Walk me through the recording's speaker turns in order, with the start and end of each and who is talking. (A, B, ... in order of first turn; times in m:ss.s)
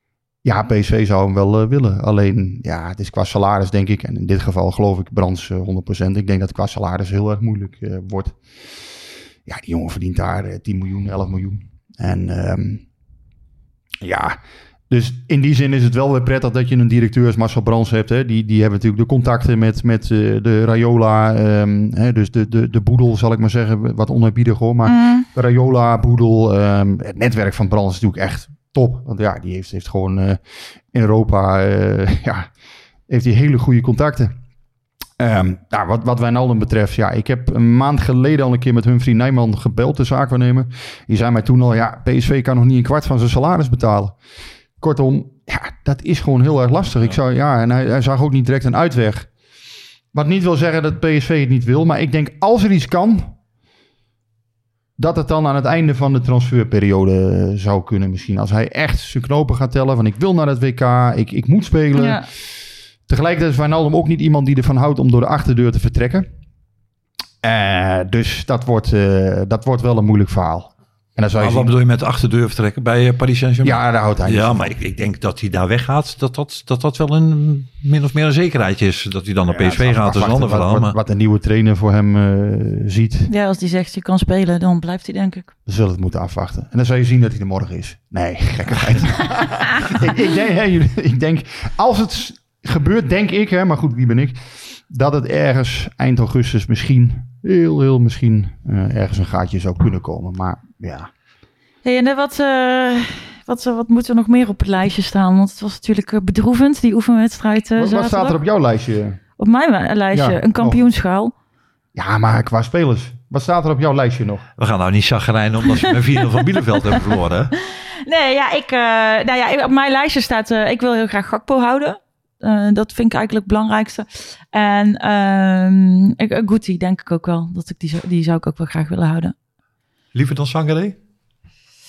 0:00.4-0:08.4 A
0:09.4-0:12.8 A
0:14.0-0:14.4 A
0:14.9-0:30.4 A
0:24.8-0:25.3 B
0:30.9-0:32.5 A
0:33.1-0:34.4 A
0:35.2-0:44.2 A
0:44.8-0:49.3 A
0:50.1-0:53.3 A
0:55.0-1:02.3 A
1:02.0-1:02.2 B
1:03.1-1:06.3 A
1:07.4-1:11.7 A
1:11.4-1:20.9 C
1:13.6-1:14.7 A
1:19.5-1:23.3 A
1:23.3-1:25.5 B
1:25.7-1:41.1 A
1:41.8-1:48.4 B
1:47.8-1:49.2 A
1:49.4-1:51.3 B
1:50.1-1:50.8 A
1:51.9-1:54.4 A
1:54.6-1:57.5 C
1:58.0-2:09.3 B
2:10.1-2:11.0 C